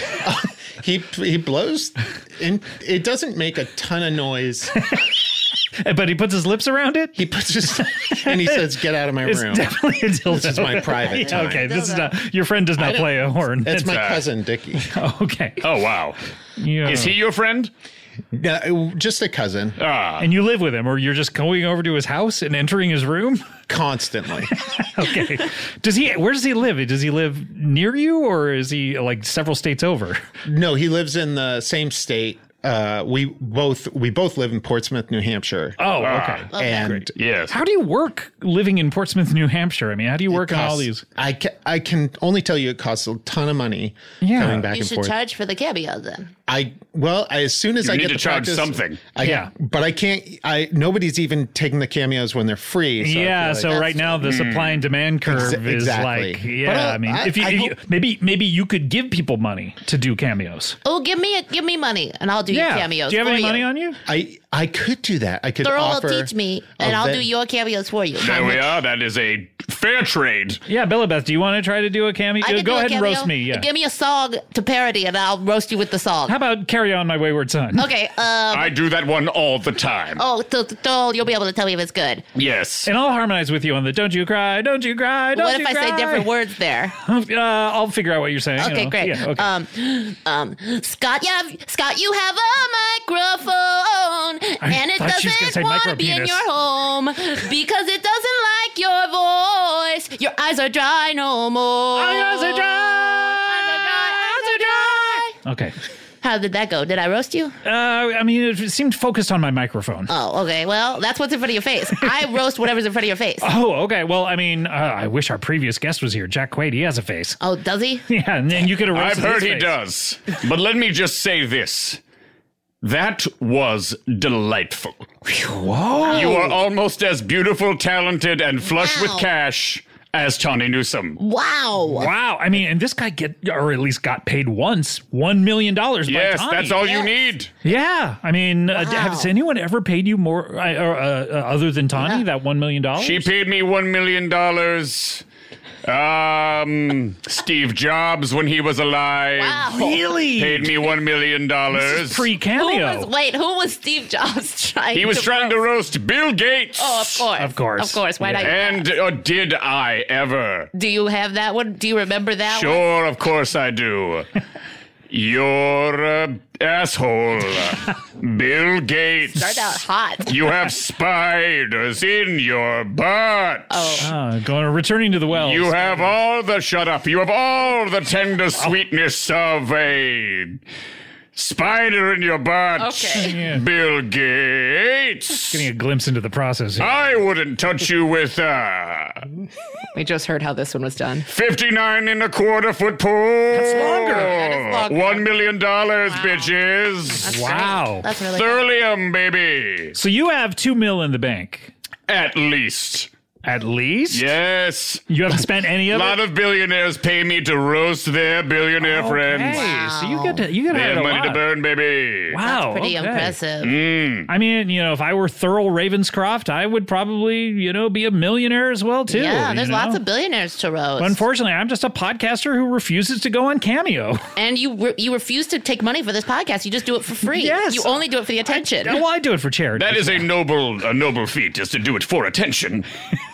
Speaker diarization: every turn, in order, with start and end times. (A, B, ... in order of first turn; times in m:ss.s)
0:00.2-0:04.7 A
0:05.8-0:07.2 B
0:07.2-0:11.7 A
0:07.8-0:08.7 B
0:09.2-0:14.0 B
0:10.9-0:12.2 C
0:12.8-0:14.9 A
0:13.9-0:14.2 D
0:14.9-0:15.6 B
0:15.6-0:16.2 D
0:16.6-0:17.2 B
0:16.8-0:17.7 D
0:18.3-0:19.8 A
0:19.8-0:20.3 D
0:20.2-0:23.5 B
0:23.7-0:24.5 A
0:24.8-0:30.2 B
0:30.4-0:36.0 A
0:35.8-0:41.0 B
0:36.0-0:36.5 D
0:36.5-0:37.0 C
0:36.5-0:37.1 A
0:37.2-0:37.6 D
0:40.3-0:45.2 A
0:44.2-0:44.6 B
0:44.7-0:46.3 C
0:46.5-0:54.0 A
0:47.8-0:49.0 D
0:49.2-0:49.5 B
0:53.0-1:00.8 B
0:53.7-0:54.2 C
0:54.2-0:54.8 D
0:55.2-0:57.8 A
1:00.8-1:03.6 C
1:02.5-1:04.0 B
1:04.1-1:07.3 A
1:05.6-1:08.6 C
1:08.2-1:10.6 D
1:10.7-1:13.7 B
1:12.4-1:16.4 C
1:16.3-1:17.9 B
1:17.8-1:18.7 C
1:18.5-1:20.2 D
1:20.2-1:22.2 C
1:22.4-1:22.9 D
1:22.8-1:26.3 B
1:25.4-1:27.0 C
1:27.0-1:29.5 B
1:28.6-1:45.4 C
1:34.6-1:36.4 B
1:42.0-1:45.8 B
1:46.2-1:47.5 C
1:47.6-1:50.1 B
1:50.1-1:53.5 C
1:53.4-1:57.4 B
1:57.4-1:58.0 C
1:58.1-1:59.7 B
1:58.9-2:02.0 D
2:02.8-2:05.2 D
2:05.4-2:06.4 B
2:06.0-2:06.6 C
2:06.1-2:11.2 D
2:08.8-2:09.3 C
2:11.2-2:12.1 C
2:11.9-2:16.8 B
2:16.1-2:17.5 D
2:16.8-2:17.2 C
2:17.6-2:23.3 B
2:18.8-2:19.3 C
2:22.0-2:22.2 C
2:23.0-2:25.2 D
2:25.8-2:29.7 D
2:29.4-2:30.1 C
2:29.7-2:30.7 B
2:30.3-2:32.3 D
2:31.7-2:33.1 B
2:32.5-2:35.6 C
2:34.9-2:37.3 D
2:36.8-2:38.8 C
2:37.4-2:38.5 B
2:38.4-2:40.7 D
2:40.7-2:42.8 C
2:42.5-2:44.3 D
2:45.1-2:54.1 D
2:49.4-2:50.4 C
2:53.7-2:54.1 C
2:54.0-2:56.1 B
2:55.3-3:00.6 D
3:01.4-3:05.7 D
3:02.8-3:03.4 C
3:03.2-3:03.6 B
3:05.5-3:06.9 B
3:06.8-3:09.2 D
3:10.0-3:11.3 C
3:11.3-3:17.3 D
3:13.5-3:14.3 B
3:13.8-3:15.4 C
3:16.1-3:16.5 C
3:17.2-3:18.1 B
3:17.2-3:18.7 C
3:18.3-3:20.0 D
3:20.0-3:21.7 B
3:22.1-3:23.1 D
3:23.4-3:24.3 B
3:24.1-3:29.7 D
3:25.1-3:26.2 B
3:28.8-3:31.4 B
3:29.5-3:30.5 C
3:30.7-3:32.4 D
3:32.3-3:33.4 B
3:32.4-3:33.8 C
3:33.6-3:34.3 D
3:34.3-3:40.0 B
3:39.1-3:41.2 C
3:41.0-3:44.2 B
3:44.4-3:49.0 C
3:47.4-3:47.9 B
3:48.8-3:50.3 B
3:49.8-3:52.9 D